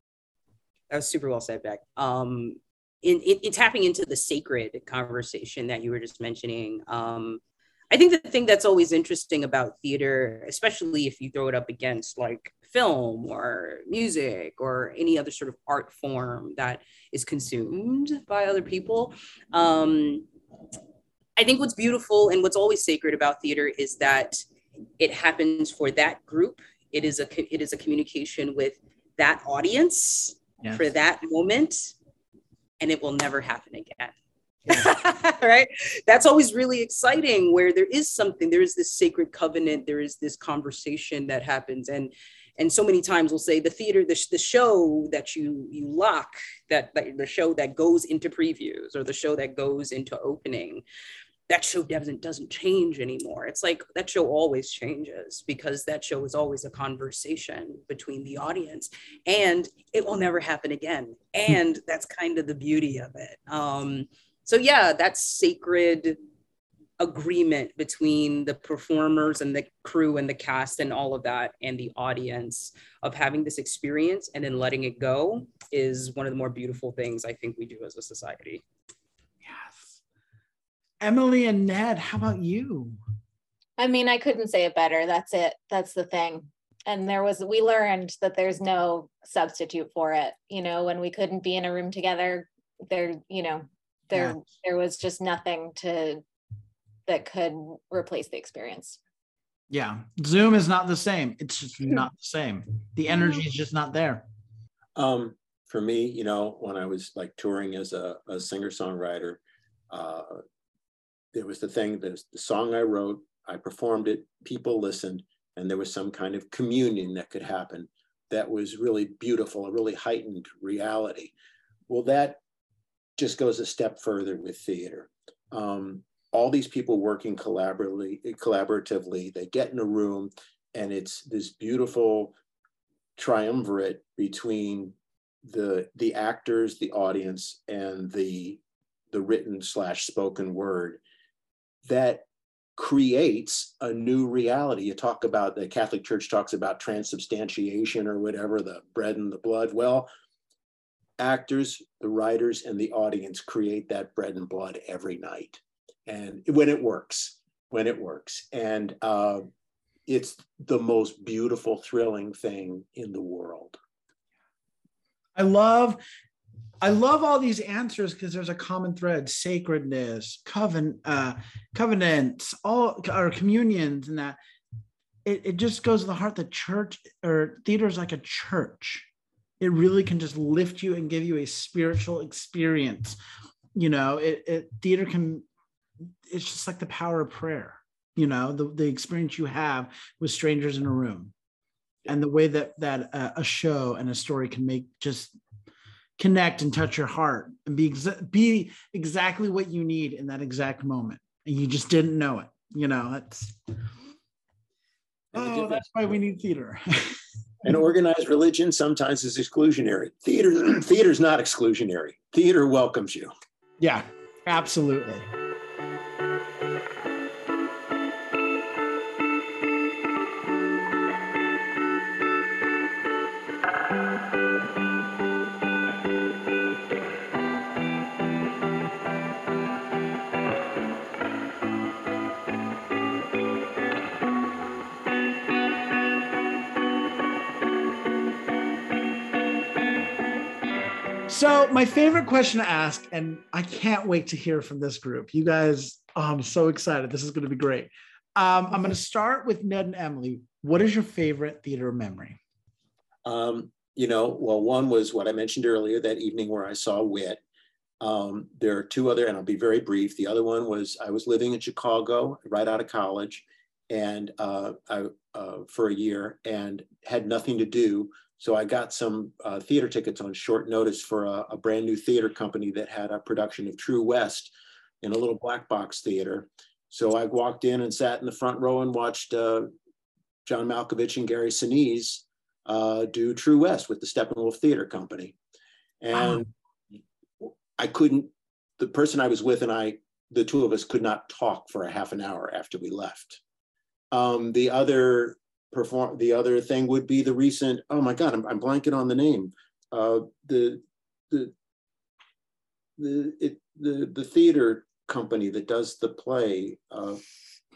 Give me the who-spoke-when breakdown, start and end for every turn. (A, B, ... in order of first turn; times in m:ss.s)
0:00.9-0:20.3 A
0:21.4-0:24.4 A
0:25.0-0:31.9 A
0:32.8-0:34.2 A
0:34.7-0:50.8 A
0:51.5-1:06.2 A
1:07.0-1:18.6 A
1:19.4-1:20.0 B
1:21.0-1:23.0 B
1:23.8-1:36.2 C
1:34.1-1:34.4 B
1:37.1-1:39.0 C
1:39.7-1:44.3 B
1:45.0-1:50.4 D
1:51.3-2:01.3 D
2:01.9-2:02.4 D
2:03.2-2:12.3 D
2:13.2-2:18.6 D
2:19.1-2:21.0 D
2:21.8-2:22.2 D
2:22.8-2:30.1 D
2:31.2-2:39.5 D
2:40.1-2:43.8 D
2:45.4-2:46.0 B
2:46.8-2:54.4 B
2:55.2-2:59.1 B
2:59.6-3:03.2 B
3:03.8-3:05.4 B
3:06.3-3:11.3 B
3:12.1-3:15.4 B
3:16.2-3:23.6 B
3:25.3-3:26.1 D
3:25.3-3:27.2 B
3:27.6-3:33.3 D
3:33.8-3:35.3 B
4:01.3-4:12.4 B
4:13.2-4:17.4 D
4:18.0-4:39.7 D
4:40.5-4:45.4 D
4:46.0-4:46.5 D
4:46.1-4:46.4 B
4:47.4-4:53.4 D
4:54.1-5:01.5 D
5:03.0-5:07.2 D